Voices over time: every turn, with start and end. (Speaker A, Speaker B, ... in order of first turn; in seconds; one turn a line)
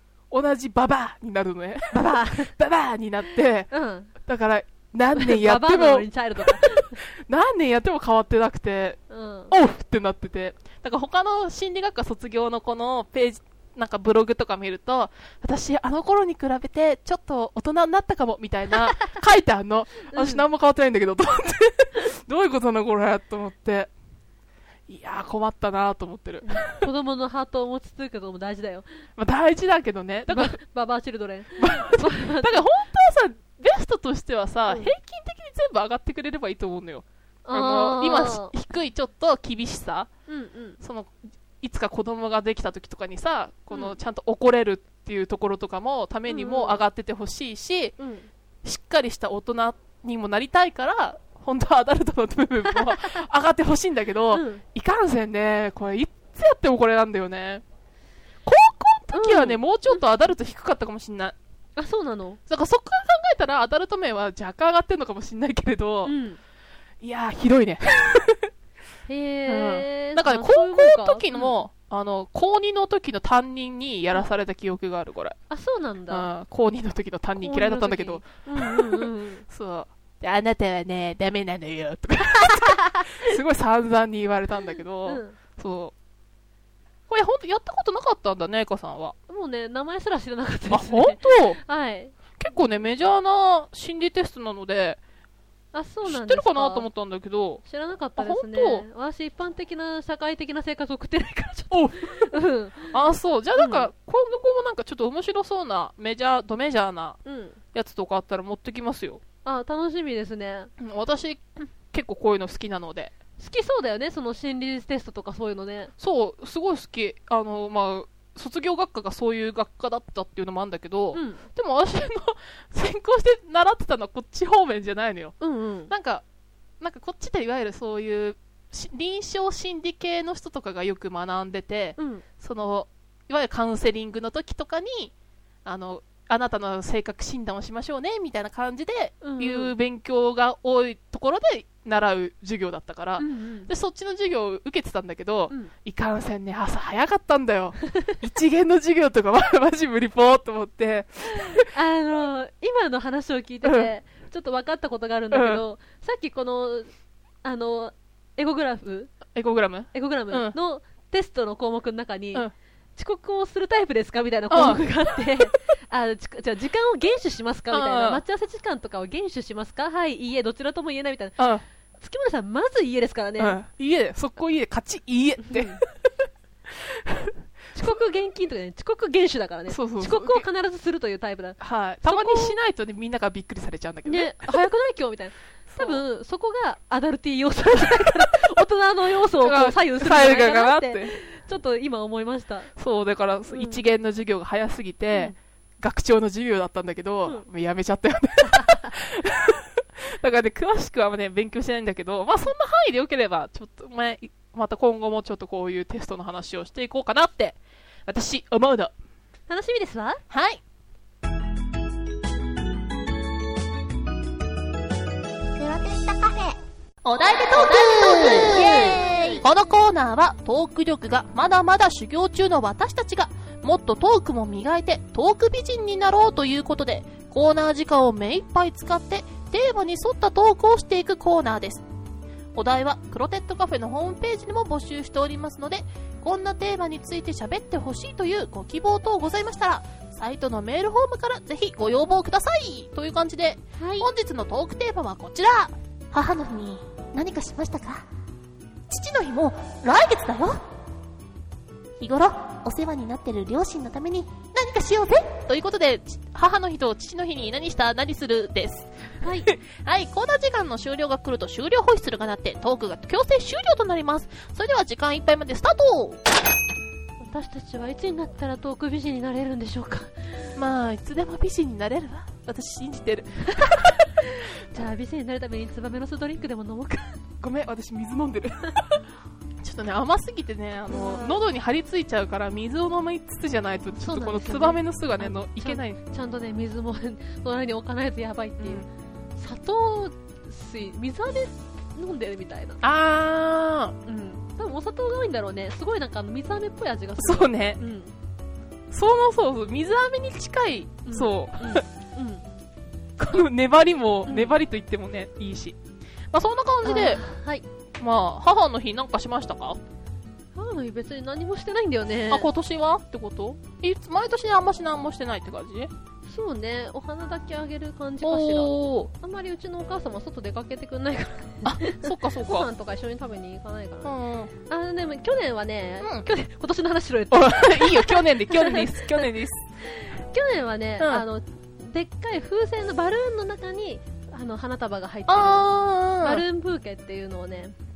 Speaker A: 0.3-9.0
Speaker B: 1.9-2.5
Speaker B: 3.7-4.1
Speaker B: 5.2-7.0
Speaker B: 9.1-9.5
Speaker A: 9.5-23.9
Speaker B: 20.1-20.4
Speaker A: 24.9-26.9
Speaker B: 26.4-28.9
Speaker A: 29.2-30.6
Speaker B: 30.3-32.7
Speaker A: 31.6-40.1
Speaker B: 34.7-34.9
Speaker B: 37.5-38.5
Speaker B: 40.3-40.8
Speaker A: 40.8-48.0
Speaker B: 46.3-46.8
Speaker B: 48.0-48.3
Speaker A: 48.6-57.6
Speaker B: 54.3-54.6
Speaker A: 58.5-61.4
Speaker B: 59.1-60.0
Speaker B: 61.8-62.4
Speaker A: 62.5-66.1
Speaker B: 66.0-66.4
Speaker A: 67.0-68.5
Speaker B: 69.1-71.5
Speaker A: 69.5-75.4
Speaker B: 75.5-76.3
Speaker A: 76.1-85.9
Speaker B: 77.4-79.5
Speaker B: 82.7-83.2
Speaker B: 85.1-85.4
Speaker A: 87.1-89.2
Speaker B: 89.3-92.2
Speaker A: 90.7-91.6
Speaker A: 92.4-95.0
Speaker B: 95.7-96.9
Speaker A: 96.0-97.6
Speaker B: 97.7-103.0
Speaker A: 98.2-98.9
Speaker A: 101.7-102.3
Speaker A: 102.9-107.2
Speaker B: 103.6-103.9
Speaker B: 107.2-107.6
Speaker A: 107.7-109.2
Speaker B: 109.5-110.7
Speaker A: 110.8-113.1
Speaker B: 113.4-115.9
Speaker A: 116.0-125.3
Speaker B: 121.1-121.5
Speaker B: 125.4-125.9
Speaker A: 125.9-126.2
Speaker A: 126.8-135.1
Speaker B: 132.0-132.2
Speaker A: 135.7-151.7
Speaker B: 139.2-139.7
Speaker B: 143.2-143.7
Speaker B: 151.3-156.9
Speaker A: 153.6-153.9
Speaker A: 155.3-155.6
Speaker B: 157.4-159.2
Speaker A: 159.3-160.6
Speaker B: 159.9-171.4
Speaker A: 164.5-164.8
Speaker A: 167.7-168.2
Speaker A: 171.4-171.6
Speaker B: 172.0-173.6
Speaker A: 173.4-175.8
Speaker B: 175.5-175.8
Speaker A: 176.7-177.9
Speaker B: 177.8-182.6
Speaker A: 179.7-180.5
Speaker A: 181.6-184.6
Speaker B: 184.1-192.7
Speaker A: 185.7-186.0
Speaker A: 189.4-191.2
Speaker A: 192.8-208.9
Speaker B: 193.5-193.8
Speaker B: 198.5-198.9
Speaker B: 209.5-210.2
Speaker A: 210.3-210.6
Speaker C: 215.6-216.6
Speaker A: 217.0-231.8
Speaker C: 217.3-219.4
Speaker B: 218.2-219.4
Speaker A: 232.6-248.1
Speaker B: 243.8-244.1
Speaker A: 248.9-250.6
Speaker A: 252.0-258.9
Speaker B: 259.2-259.5
Speaker A: 259.5-266.2
Speaker B: 267.2-270.1
Speaker A: 270.6-274.0
Speaker B: 273.6-277.2
Speaker A: 277.4-279.0
Speaker A: 279.6-286.0
Speaker B: 280.9-281.4
Speaker B: 284.0-288.9
Speaker A: 288.6-288.9
Speaker B: 289.4-292.8
Speaker A: 292.8-294.0
Speaker B: 294.1-298.1
Speaker A: 297.2-297.8
Speaker A: 298.9-301.8
Speaker B: 301.1-302.4
Speaker A: 303.2-305.8
Speaker B: 304.3-304.5
Speaker A: 306.3-307.2
Speaker B: 306.9-307.6
Speaker A: 308.0-309.8
Speaker B: 310.6-312.5
Speaker A: 312.3-315.9
Speaker B: 316.3-324.1
Speaker A: 318.2-319.1
Speaker A: 321.6-322.7
Speaker A: 324.0-324.5
Speaker B: 324.7-329.2
Speaker A: 327.3-329.6
Speaker B: 329.9-337.7
Speaker A: 335.3-336.4